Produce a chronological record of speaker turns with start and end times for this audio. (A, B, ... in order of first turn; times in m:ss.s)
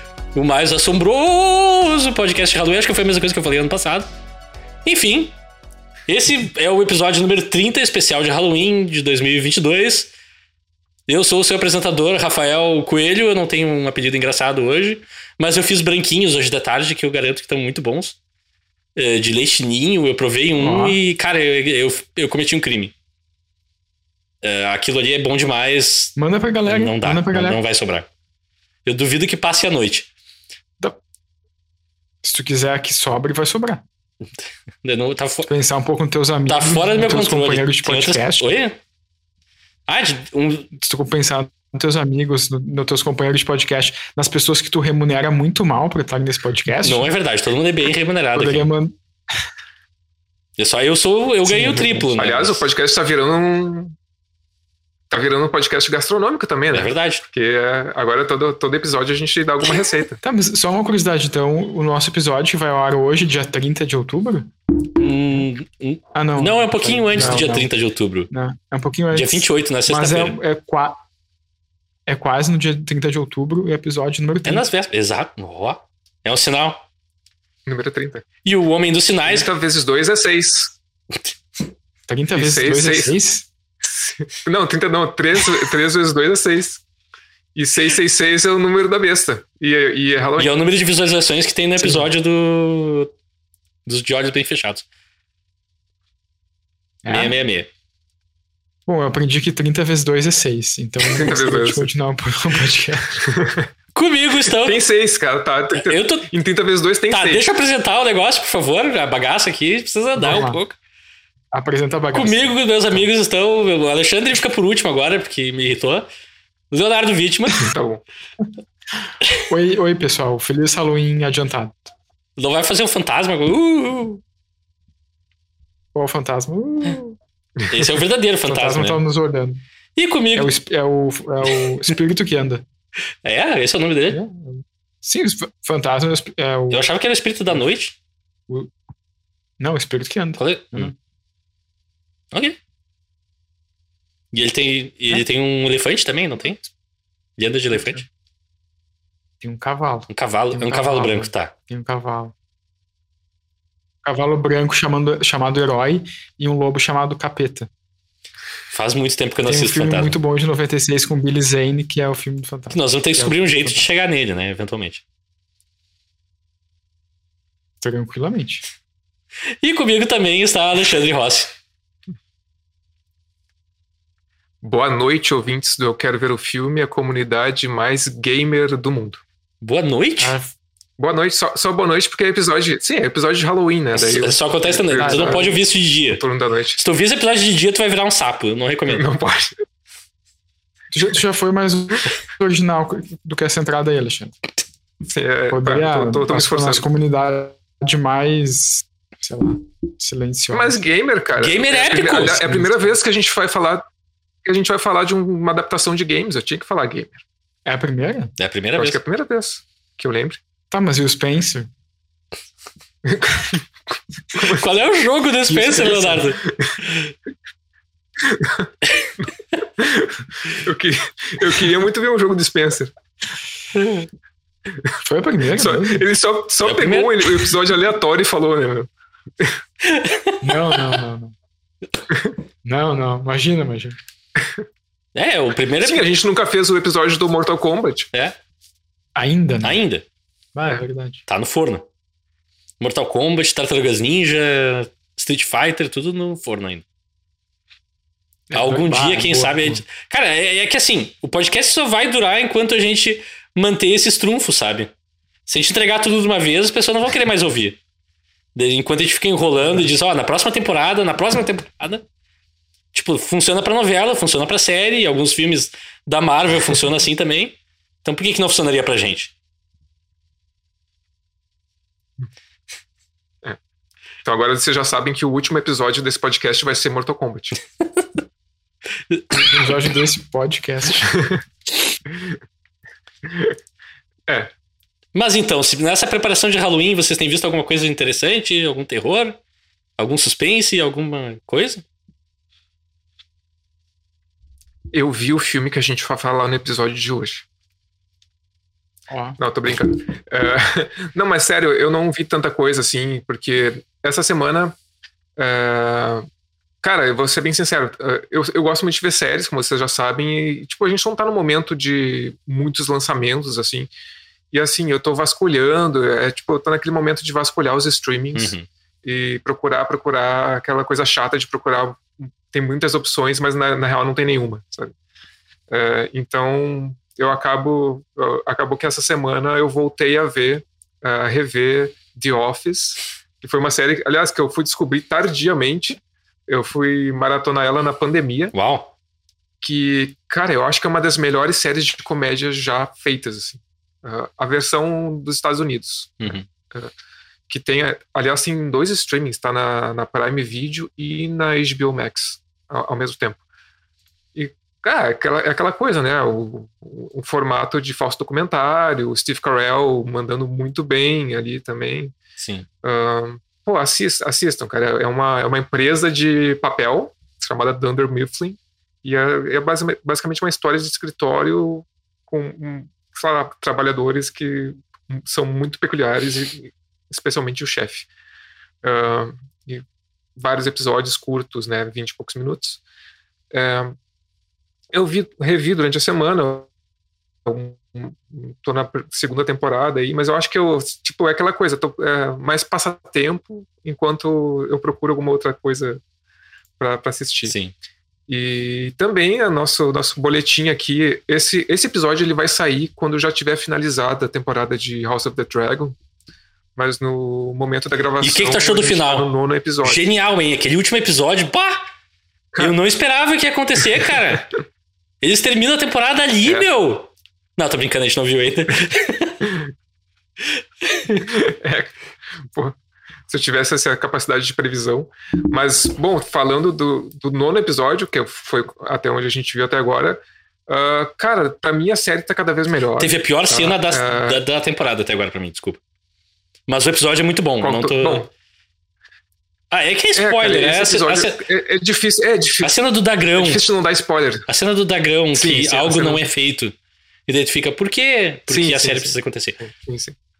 0:00.3-0:04.1 A
0:04.8-0:05.4 A
0:06.1-0:10.1 A
0:11.1-0:18.2 A
0:19.0-0:22.9 A
0:20.6-0:21.0 B
0:24.4-0:26.2 A
0:26.2-0:27.6 B
0:26.7-0:28.1 A
0:28.8-0:30.1 A
0:32.2-0:33.8 B
0:34.8-0:35.5 A
0:35.5-0:38.6 B
0:36.5-0:38.8 A
0:39.9-0:40.7 A
0:40.7-0:47.1 B
0:46.8-0:48.7 A
0:48.3-0:49.0 B
0:50.6-0:52.6 A
0:51.4-0:52.1 B
0:52.2-0:54.0 C
0:55.1-1:00.2 C
0:56.7-0:57.2 A
1:00.2-1:04.5 B
1:05.0-1:08.3 A
1:06.2-1:07.7 B
1:08.3-1:11.0 B
1:09.1-1:10.4 A
1:12.1-1:14.6 B
1:14.4-1:16.8 A
1:17.7-1:18.2 C
1:18.4-1:19.5 A
1:19.2-1:20.8 C
1:22.1-1:23.5 B
1:22.4-1:23.2 C
1:23.8-1:26.8 C
1:27.6-1:30.6 C
1:30.4-1:33.1 A
1:31.8-1:32.1 B
1:33.9-1:34.9 A
1:37.0-1:37.4 B
1:37.1-1:37.7 A
1:38.9-1:43.2 B
1:41.1-1:41.9 C
1:43.1-1:43.7 C
1:44.0-1:44.8 A
1:44.5-1:47.5 C
1:45.8-1:46.3 A
1:47.1-1:50.8 A
1:50.2-1:50.6 B
1:51.5-1:53.0 B
1:52.1-1:56.1 A
1:56.7-1:57.7 A
1:57.6-1:58.0 C
1:59.0-2:01.9 B
2:02.4-2:04.2 A
2:05.9-2:07.2 B
2:07.6-2:07.9 C
2:07.7-2:09.0 A
2:08.4-2:09.6 B
2:10.0-2:10.5 A
2:10.4-2:12.6 B
2:13.2-2:14.2 A
2:15.0-2:16.8 B
2:16.7-2:18.0 A
2:19.6-2:20.9 B
2:20.4-2:20.9 A
2:22.3-2:22.6 A
2:24.3-2:26.6 A
2:27.4-2:28.0 A
2:29.4-2:32.3 B
2:30.1-2:31.5 A
2:34.0-2:37.7 B
2:38.7-2:40.2 A
2:39.4-2:43.9 B
2:42.7-2:45.0 A
2:47.8-2:48.7 B
2:49.6-2:51.6 A
2:54.6-2:59.2 C
2:59.6-3:00.4 A
3:00.2-3:00.5 B
3:01.0-3:06.8 C
3:04.0-3:06.2 A
3:05.0-3:05.5 B
3:06.8-3:09.1 A
3:08.9-3:09.6 C
3:10.9-3:14.5 B
3:15.1-3:16.8 C
3:15.5-3:20.8 B
3:20.5-3:23.9 C
3:21.4-3:22.5 A
3:22.4-3:22.9 B
3:24.4-3:27.2 C
3:27.7-3:28.3 B
3:28.4-3:29.0 A
3:28.8-3:30.4 C
3:30.7-3:31.7 B
3:33.0-3:33.6 C
3:34.3-3:34.6 C
3:34.5-3:37.1 A
3:35.5-3:36.4 B
3:36.4-3:36.8 C
3:38.2-3:38.7 C
3:39.8-3:42.9 C
3:43.8-3:44.1 C
3:45.0-3:46.0 B
3:45.5-3:48.9 C
3:46.6-3:47.5 A
3:49.8-3:50.6 A
3:50.4-3:51.4 B
3:52.6-3:54.0 B
3:54.4-3:54.6 C
3:55.2-3:56.1 A
3:55.8-3:58.1 C
3:59.2-3:59.8 B
3:59.6-4:00.0 A
4:00.6-4:01.2 B
4:01.3-4:01.9 A
4:02.8-4:06.8 A
4:08.5-4:09.8 B
4:08.5-4:14.9 A
4:15.5-4:17.8 A
4:18.6-4:22.1 A
4:22.9-4:29.3 A
4:34.2-4:37.6 C
4:39.1-4:39.7 A
4:39.4-4:41.1 B
4:41.1-4:41.4 C
4:43.3-4:43.6 C
4:44.3-4:44.5 C
4:45.1-4:49.4 A
4:50.0-4:51.8 A
4:54.9-4:57.5 C
4:59.1-4:59.4 B
4:59.4-5:04.8 C
5:05.4-5:06.3 C
5:06.8-5:13.9 C
5:14.5-5:24.9 C
5:18.4-5:18.7 A
5:25.7-5:38.5 C
5:38.5-5:38.9 A
5:39.6-5:46.9 C
5:46.2-5:46.5 A
5:47.5-5:53.4 C
5:54.4-6:02.2 C
6:02.4-6:02.7 A
6:02.8-6:18.1 C
6:18.8-6:19.8 C
6:20.4-6:22.8 C
6:23.5-6:24.0 C
6:24.9-6:26.7 C
6:27.5-6:36.0 C
6:36.8-6:37.6 C
6:37.5-6:37.7 A
6:38.3-6:46.0 C
6:46.8-6:50.0 C
6:48.2-6:49.3 A
6:49.8-6:51.9 A
6:52.6-6:54.5 A
6:55.2-6:59.5 A
6:59.4-6:59.7 C
7:00.9-7:01.2 A
7:01.2-7:02.8 C
7:03.3-7:14.4 C
7:13.0-7:15.8 A
7:16.7-7:18.3 A
7:17.6-7:18.3 C
7:19.7-7:21.4 A
7:20.2-7:22.7 C
7:22.6-7:23.6 A
7:23.4-7:24.5 C
7:24.5-7:26.8 A
7:25.3-7:26.2 C
7:27.3-7:29.6 A
7:28.5-7:30.2 C